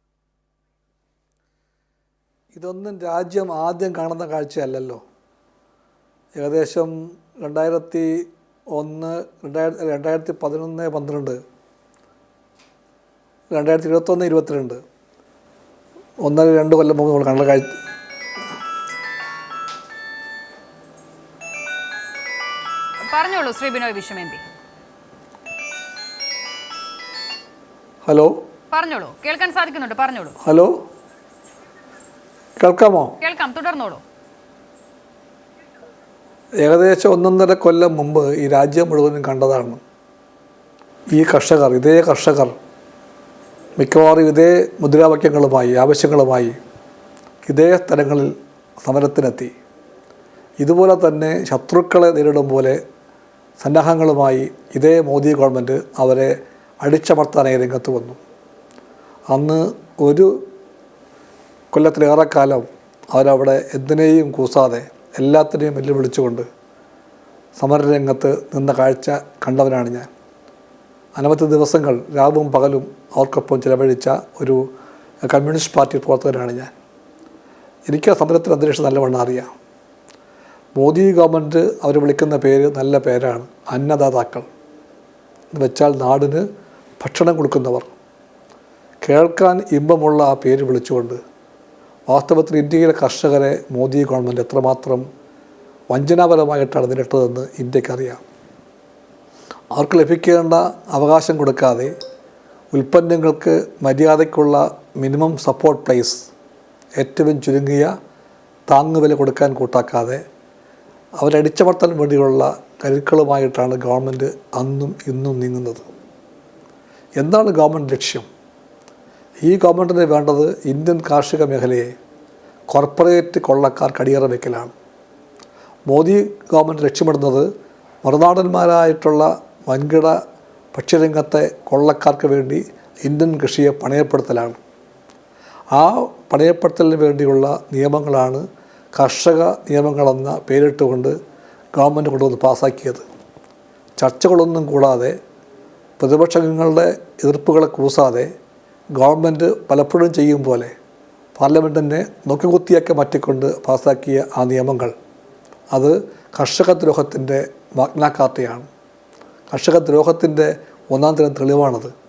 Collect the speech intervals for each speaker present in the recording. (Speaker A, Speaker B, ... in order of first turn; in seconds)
Speaker A: 2.5-5.0, 6.3-11.4, 13.5-14.8, 16.2-17.8, 28.0-28.3, 30.4-30.8, 32.6-33.1, 36.6-39.8, 41.1-42.5, 43.8-46.6, 47.5-49.5, 50.6-52.8, 53.6-58.2, 59.3-60.4, 61.7-66.5, 67.6-70.1, 71.2-74.7, 75.3-76.7, 77.9-79.5, 80.8-84.5, 85.5-86.4, 87.0-87.9, 89.0-91.2, 92.1-95.0, 95.9-98.2, 99.7-101.9, 102.7-106.2, 107.0-107.9, 108.7-110.2, 111.2-115.8, 117.2-118.3, 119.4-121.9, 122.7-124.7, 125.9-127.5, 128.0-130.2, 130.7-134.6, 135.7-138.4, 138.9-141.1, 141.8-143.0, 144.0-145.2, 146.0-148.3, 149.0-150.7, 151.3-154.9, 155.7-158.7, 159.5-161.9
Speaker B: 23.1-24.4, 28.7-30.4, 33.2-34.0